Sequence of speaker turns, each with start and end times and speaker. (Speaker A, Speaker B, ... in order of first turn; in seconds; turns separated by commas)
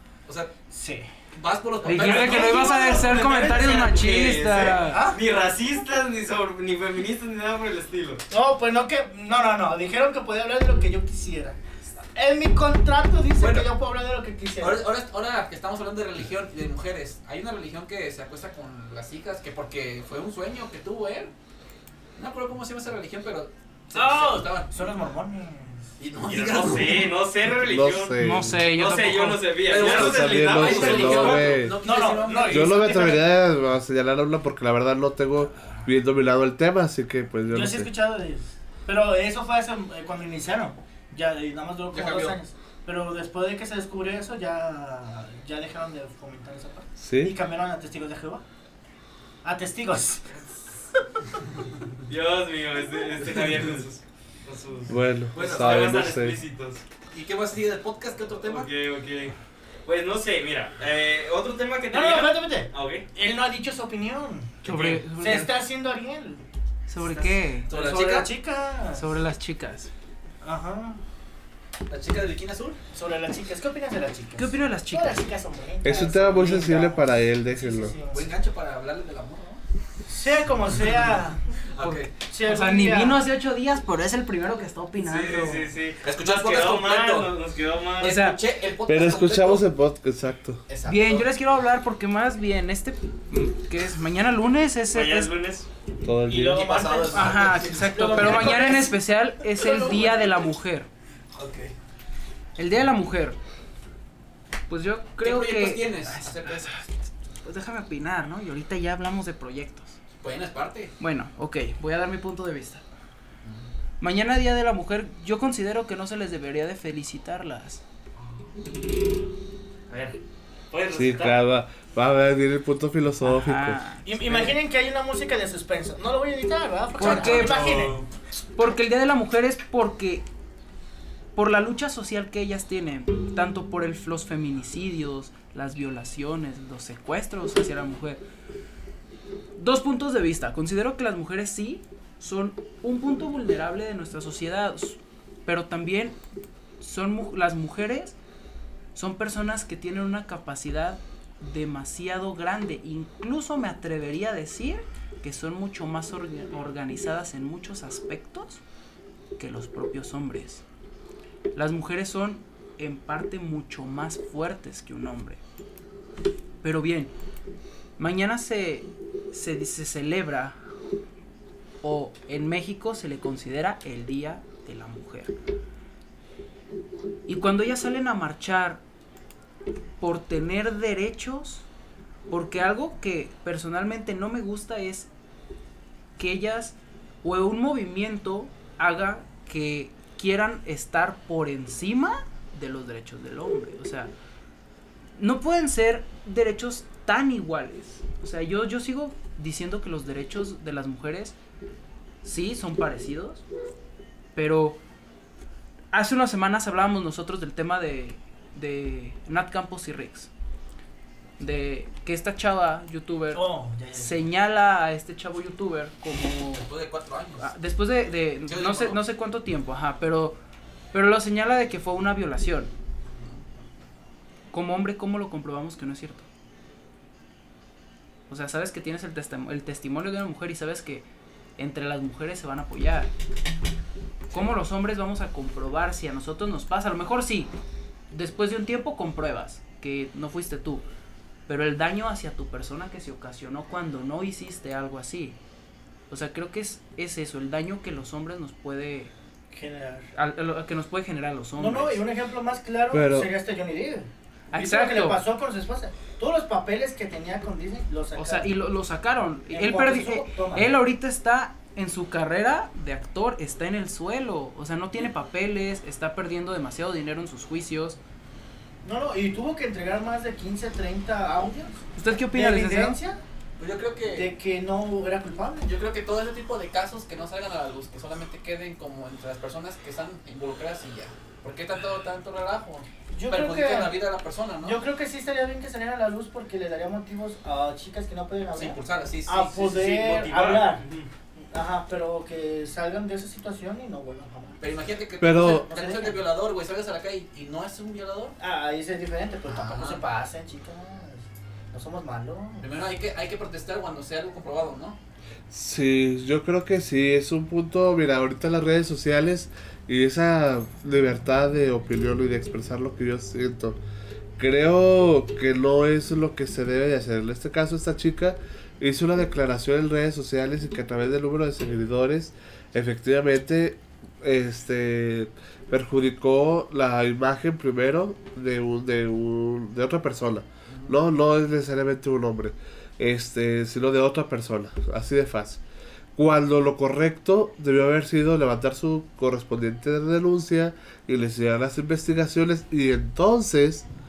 Speaker A: 0.2-0.5, Speaker B: 0.7-1.1, Speaker A: 1.3-2.6, Speaker C: 1.8-5.1, Speaker D: 1.9-8.2, Speaker B: 1.9-2.5, Speaker B: 4.8-5.2, Speaker B: 8.3-11.6, Speaker B: 12.1-14.8, Speaker A: 13.4-13.7, Speaker A: 14.6-21.3, Speaker A: 22.1-24.7, Speaker B: 23.9-25.9, Speaker A: 26.0-27.1, Speaker D: 26.2-31.7, Speaker E: 27.6-28.6, Speaker C: 28.2-29.5, Speaker A: 29.6-32.9, Speaker E: 29.7-31.8, Speaker B: 31.8-33.3, Speaker E: 32.4-37.9, Speaker B: 37.5-48.4, Speaker A: 41.9-42.4, Speaker E: 47.0-47.4, Speaker B: 49.4-50.3, Speaker D: 52.1-56.8, Speaker A: 53.2-53.9, Speaker E: 54.9-56.4, Speaker A: 55.3-56.0, Speaker A: 57.1-58.7, Speaker D: 58.4-59.3, Speaker D: 59.9-63.0, Speaker B: 61.9-64.6, Speaker A: 64.6-65.0, Speaker C: 64.7-65.5, Speaker B: 65.2-66.4, Speaker C: 66.9-67.7, Speaker D: 67.0-67.3, Speaker A: 67.7-68.3, Speaker B: 67.7-69.1, Speaker C: 68.9-69.9, Speaker B: 70.4-71.0, Speaker A: 71.9-72.8, Speaker B: 72.9-78.3, Speaker C: 74.4-75.3, Speaker E: 75.8-78.0, Speaker A: 78.1-79.6, Speaker B: 80.1-81.4, Speaker A: 81.7-82.1, Speaker C: 81.8-85.7, Speaker B: 82.3-83.2, Speaker D: 85.0-88.2, Speaker A: 86.0-87.3, Speaker A: 88.0-89.7, Speaker C: 88.0-88.4, Speaker E: 88.9-90.6, Speaker A: 90.7-91.3, Speaker C: 90.8-95.3, Speaker D: 94.9-95.7, Speaker E: 96.0-96.8, Speaker A: 96.3-98.8, Speaker B: 96.5-99.0, Speaker C: 97.1-100.9, Speaker B: 99.6-100.3, Speaker A: 101.3-101.7, Speaker C: 102.6-103.4, Speaker C: 104.7-106.8, Speaker A: 105.2-106.8, Speaker C: 107.4-110.0, Speaker A: 110.2-110.9, Speaker C: 111.0-112.8, Speaker A: 113.4-113.7, Speaker C: 114.0-117.8, Speaker D: 119.9-120.2, Speaker D: 120.7-121.4, Speaker E: 120.9-123.8, Speaker C: 123.2-124.5, Speaker B: 124.0-128.0, Speaker C: 127.0-127.9, Speaker D: 127.1-128.0, Speaker A: 127.2-127.9, Speaker C: 128.6-130.2, Speaker C: 131.3-138.2, Speaker C: 139.6-146.2, Speaker C: 146.8-148.2, Speaker C: 148.9-158.6, Speaker C: 159.4-160.6, Speaker C: 161.5-165.4, Speaker C: 166.6-167.1, Speaker C: 168.0-170.6, Speaker C: 171.8-175.3, Speaker C: 177.2-178.8, Speaker C: 180.0-181.7, Speaker C: 182.3-185.1, Speaker C: 186.2-194.1, Speaker C: 195.2-201.3, Speaker C: 202.2-203.4, Speaker C: 204.3-204.8, Speaker C: 205.9-210.3, Speaker C: 211.4-216.7, Speaker B: 213.3-214.2, Speaker A: 216.6-217.5, Speaker C: 217.4-220.4, Speaker A: 218.4-219.0, Speaker C: 220.9-222.7, Speaker C: 224.5-226.2, Speaker C: 228.3-231.1, Speaker C: 231.6-233.1, Speaker C: 234.3-237.5, Speaker C: 238.1-240.8, Speaker C: 241.5-245.4, Speaker C: 246.1-249.1, Speaker B: 249.5-250.1, Speaker C: 250.1-252.0, Speaker B: 251.6-258.5, Speaker E: 252.9-253.3, Speaker C: 254.5-255.2, Speaker C: 258.1-268.0, Speaker B: 259.5-260.8, Speaker B: 268.8-273.2, Speaker C: 271.9-273.0, Speaker A: 273.6-274.3, Speaker B: 274.1-275.7, Speaker A: 275.6-284.8, Speaker B: 283.1-284.0, Speaker B: 284.6-290.8, Speaker A: 288.5-289.7, Speaker D: 289.6-291.1, Speaker B: 291.5-294.6, Speaker A: 294.6-298.3, Speaker E: 295.2-295.7, Speaker B: 295.3-296.2, Speaker B: 298.4-302.7, Speaker A: 299.5-300.0, Speaker A: 302.6-305.0, Speaker E: 305.5-313.8, Speaker E: 314.4-335.6, Speaker A: 330.7-331.0, Speaker E: 336.1-343.8